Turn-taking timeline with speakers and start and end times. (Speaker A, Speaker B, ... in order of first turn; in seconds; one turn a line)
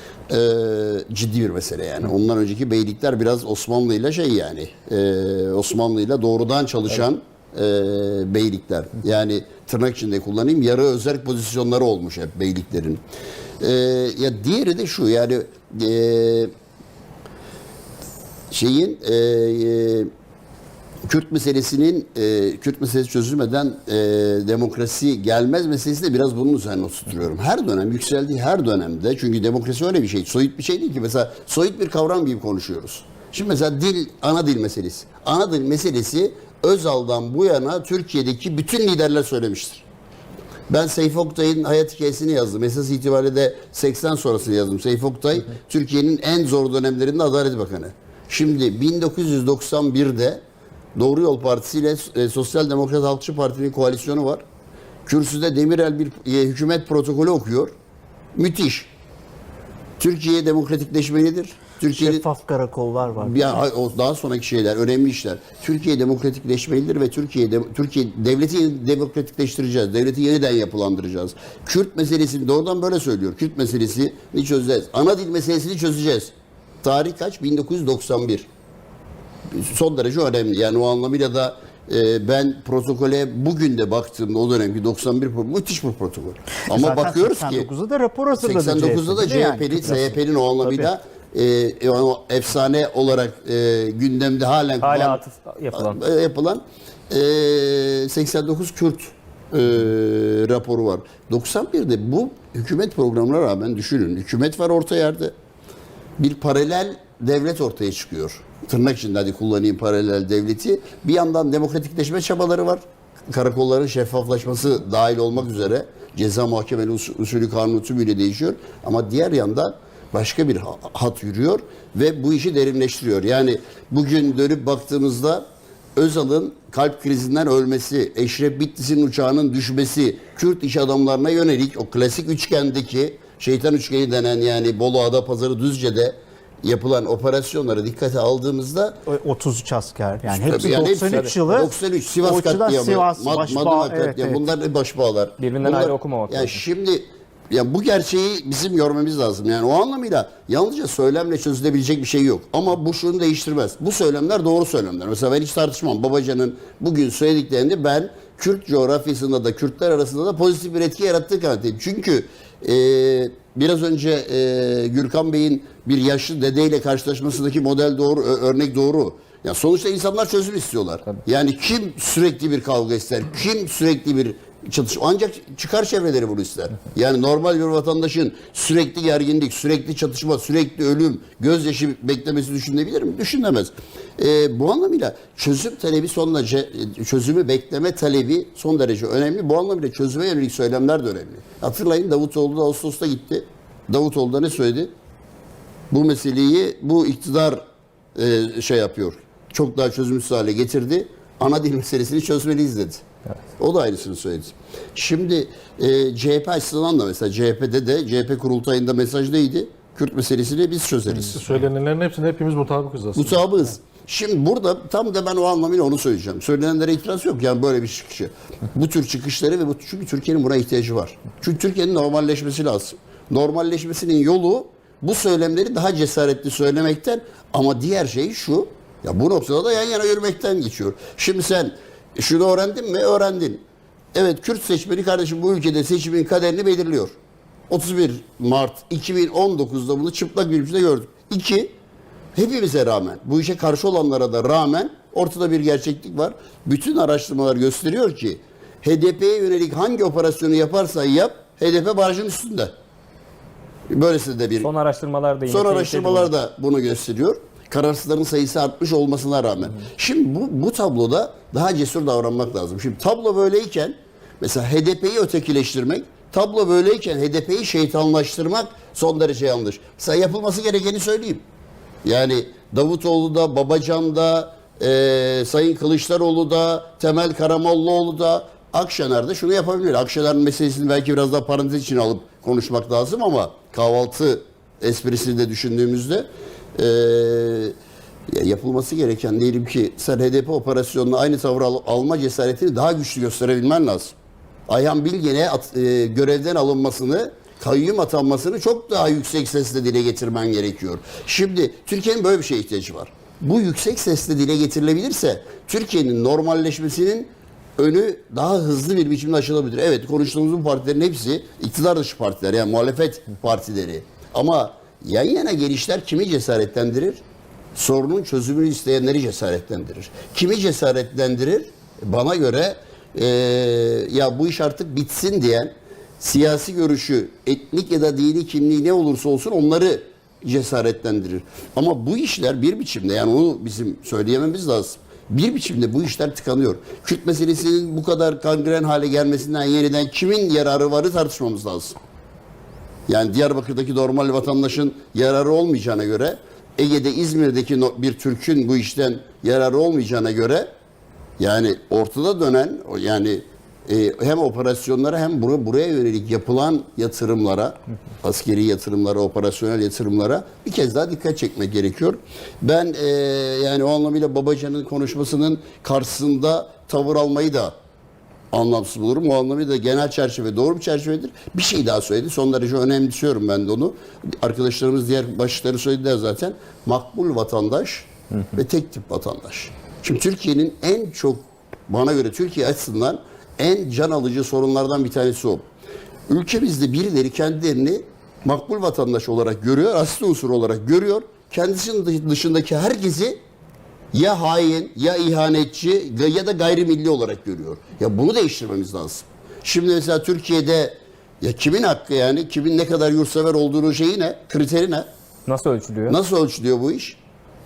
Speaker A: 0.3-13.0
Speaker A: 13.6-16.5
Speaker A: 18.5-20.1
Speaker A: 21.1-39.8
Speaker A: 40.7-50.4
Speaker A: 51.0-54.4
Speaker A: 55.1-57.7
Speaker A: 58.3-58.9
Speaker A: 60.0-62.2
Speaker B: 62.0-63.4
Speaker A: 63.1-76.3
Speaker A: 76.8-78.5
Speaker A: 79.5-87.7
Speaker B: 86.6-90.9
Speaker A: 88.3-95.2
Speaker C: 94.8-96.0
Speaker A: 95.7-105.3
Speaker A: 106.2-125.4
Speaker A: 126.0-139.0
Speaker B: 139.1-141.7
Speaker A: 140.3-194.9
Speaker B: 142.2-144.4
Speaker C: 145.4-146.6
Speaker A: 195.9-197.6
Speaker A: 198.2-203.0
Speaker A: 203.6-211.3
Speaker D: 211.1-213.5
Speaker A: 213.2-233.6
Speaker A: 234.1-237.1
Speaker A: 237.7-241.7
Speaker A: 242.3-252.7
Speaker A: 253.9-254.7
Speaker C: 254.6-256.3
Speaker A: 255.5-271.4
Speaker A: 272.0-287.7
Speaker A: 288.3-294.1
Speaker A: 294.7-317.2
Speaker A: 317.8-341.9
Speaker A: 343.1-350.7
Speaker A: 351.4-367.7
Speaker A: 368.5-385.6
Speaker A: 386.3-393.4
Speaker A: 394.1-405.1
Speaker C: 405.5-406.2
Speaker A: 406.1-407.2